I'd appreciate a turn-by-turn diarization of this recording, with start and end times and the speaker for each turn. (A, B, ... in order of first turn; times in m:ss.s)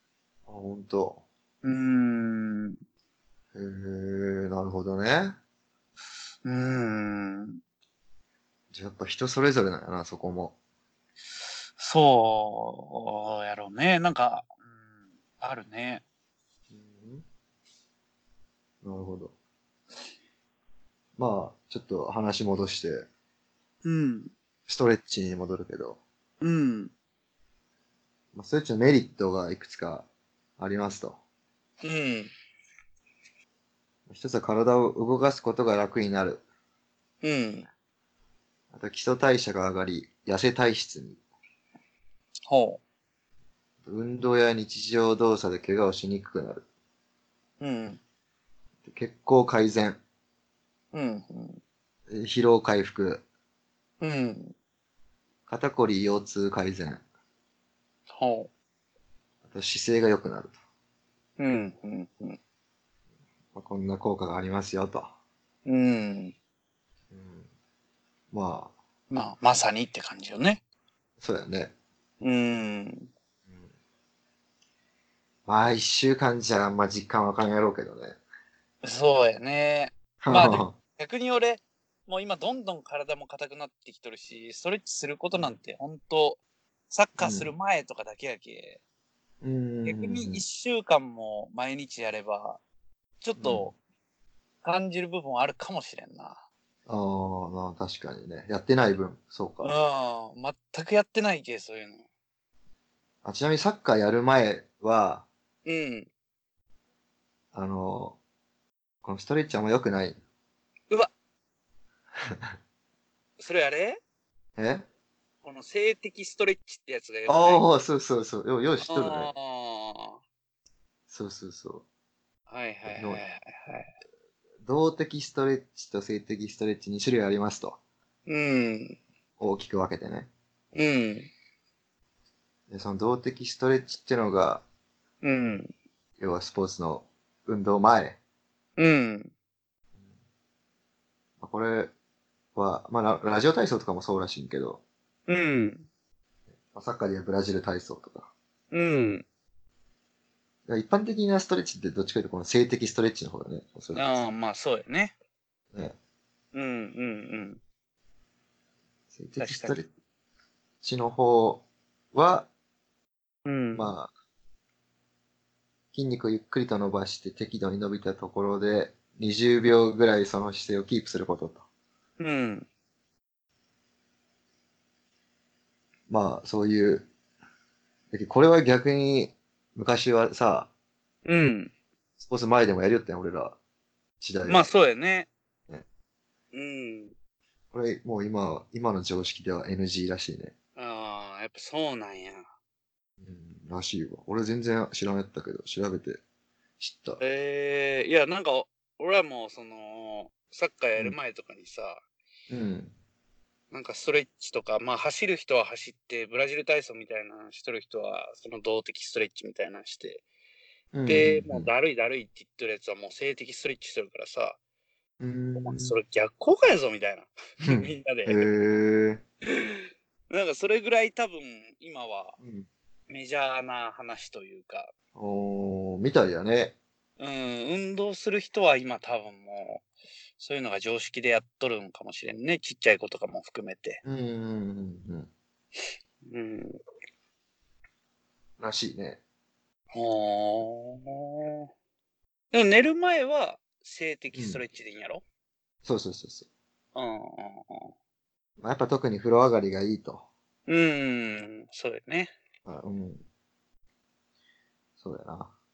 0:00.5-0:01.2 A
0:01.6-0:02.8 B
0:03.6-0:05.4 A
0:06.4-0:07.6 B
0:08.7-0:10.6 A
0:11.8-0:14.5 B
0:15.4-0:16.0 B
0:16.7-0:17.2 A
0:18.8-0:19.3 A
0:21.2-0:23.1 A
0:23.8-0:24.3 B
0:24.7-0:26.0 A
0:26.4-0:26.9 B
0:28.3-0:30.1 A
0:30.6-0:31.2 A
0:31.8-0:32.3 B
0:34.1-0:36.4 A
0:37.2-0:37.7 B
0:38.7-0:41.2 A
0:42.5-0:42.8 B
0:43.8-0:46.6 A
0:47.6-0:48.0 B
0:48.8-0:50.0 A
0:50.9-0:51.6 B
0:52.1-0:53.2 A
0:54.0-0:54.6 B
0:55.5-0:57.0 A
0:58.1-0:58.5 B
0:59.4-1:00.6 A
1:01.4-1:02.4 B
1:03.5-1:05.1 A
1:05.7-1:06.4 B
1:07.1-1:07.5 A
1:08.3-1:08.7 A
1:09.1-1:10.6 B
1:11.2-1:11.7 A
1:12.2-1:13.1 B
1:15.5-1:18.2 A
1:18.8-1:28.8 B
1:20.2-1:20.8 A
1:27.2-1:27.5 A
1:29.4-1:30.4 A
1:29.8-1:32.6 B
1:33.2-1:33.8 B
1:33.4-1:33.7 A
1:34.6-1:36.4 B
1:36.9-1:39.7 A
1:39.6-1:42.0 B
1:43.2-1:45.3 A
1:45.7-1:46.1 B
1:47.5-1:48.2 A
1:49.0-1:50.2 A
1:52.2-1:52.5 A
1:53.4-1:54.0 B
1:54.6-1:54.8 A
1:55.4-1:57.6 B
1:57.3-1:59.3 A
1:58.8-2:00.2 B
2:01.1-2:01.8 A
2:02.5-2:03.9 B
2:02.9-2:03.2 A
2:04.6-2:07.8 A
2:08.3-2:09.0 B
2:09.4-2:10.3 A
2:10.7-2:11.3 B
2:12.7-2:14.6 A
2:15.2-2:15.7 B
2:16.2-2:18.2 A
2:18.8-2:19.3 B
2:21.4-2:21.9 A
2:22.6-2:24.8 A
2:25.3-2:25.9 B
2:26.7-2:28.3 A
2:28.7-2:29.2 B
2:30.7-2:34.2 A
2:33.9-2:35.2 B
2:36.5-2:37.6 B
2:39.1-2:39.9 A
2:39.4-2:39.8 B
2:40.8-2:42.5 A
2:43.4-2:43.9 B
2:43.7-2:44.1 A
2:45.9-2:51.6 A
2:52.2-2:52.7 B
2:56.1-2:57.1 A
2:58.1-3:00.7 A
3:01.2-3:01.7 B
3:02.2-3:03.6 A
3:04.2-3:04.7 A
3:04.5-3:05.3 B
3:06.5-3:07.1 B
3:07.7-3:10.5 A
3:10.8-3:12.4 B
3:13.2-3:16.2 A
3:16.8-3:17.2 A
3:17.2-3:22.0 B
3:22.5-3:22.9 A
3:23.7-3:30.2 B
3:30.9-3:31.7 A
3:31.0-3:34.6 B
3:35.2-3:36.0 A
3:35.6-3:38.5 B
3:37.6-3:39.2 A
3:39.5-3:42.4 B
3:42.4-3:42.7 A
3:43.1-3:44.9 B
3:45.2-3:46.8 A
3:47.2-3:49.8 B
3:50.4-3:54.0 B
3:54.0-3:55.3 A
3:56.3-3:56.8 B
3:58.6-3:59.2 A
3:59.9-4:01.7 B
4:02.5-4:05.2 B
4:04.3-4:04.6 A
4:05.8-4:06.5 A
4:07.0-4:07.9 B
4:08.6-4:10.3 A
4:10.7-4:12.3 B
4:12.7-4:13.2 A
4:15.0-4:15.5 A